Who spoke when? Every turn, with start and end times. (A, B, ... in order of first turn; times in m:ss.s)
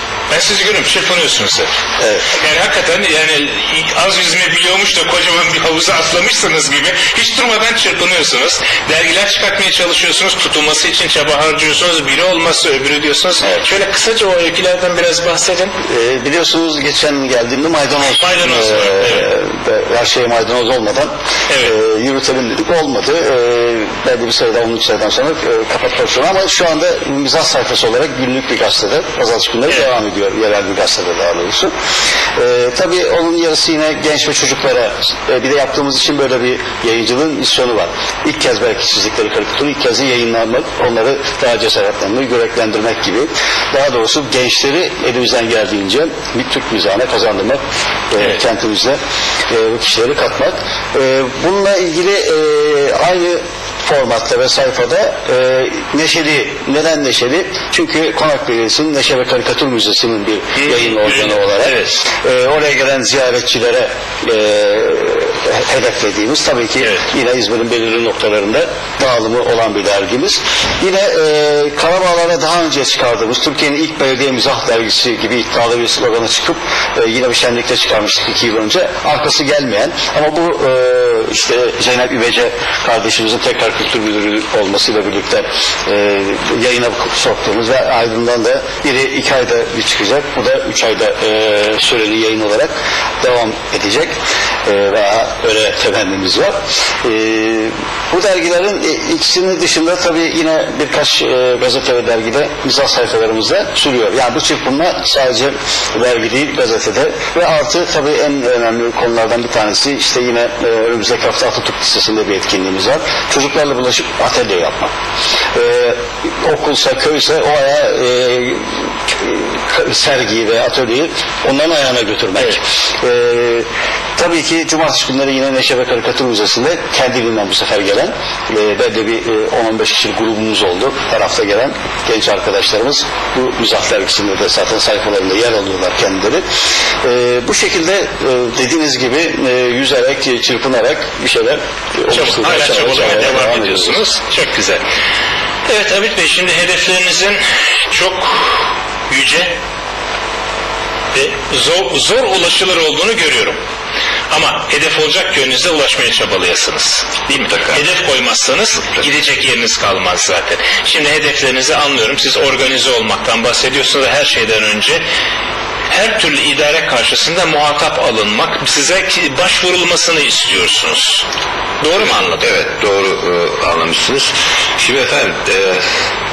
0:00.3-0:01.7 A
0:02.3-0:15.7 A
0:15.8-0:21.1 B
0:18.0-0:19.3 A
0:21.5-0:21.7 A
0:21.6-0:31.7 B
0:32.4-0:49.0 B
0:49.5-1:54.9 B
1:00.6-1:02.0 A
1:55.5-1:58.7 B
1:59.2-2:03.6 B
2:04.2-2:16.4 B
2:17.0-2:24.0 B
2:22.1-2:24.8 A
2:25.7-2:29.6 A
2:31.1-2:33.6 A
2:34.3-2:45.0 A
2:37.4-2:37.8 C
2:45.9-2:51.2 A
2:51.8-2:52.5 A
2:52.0-2:55.8 C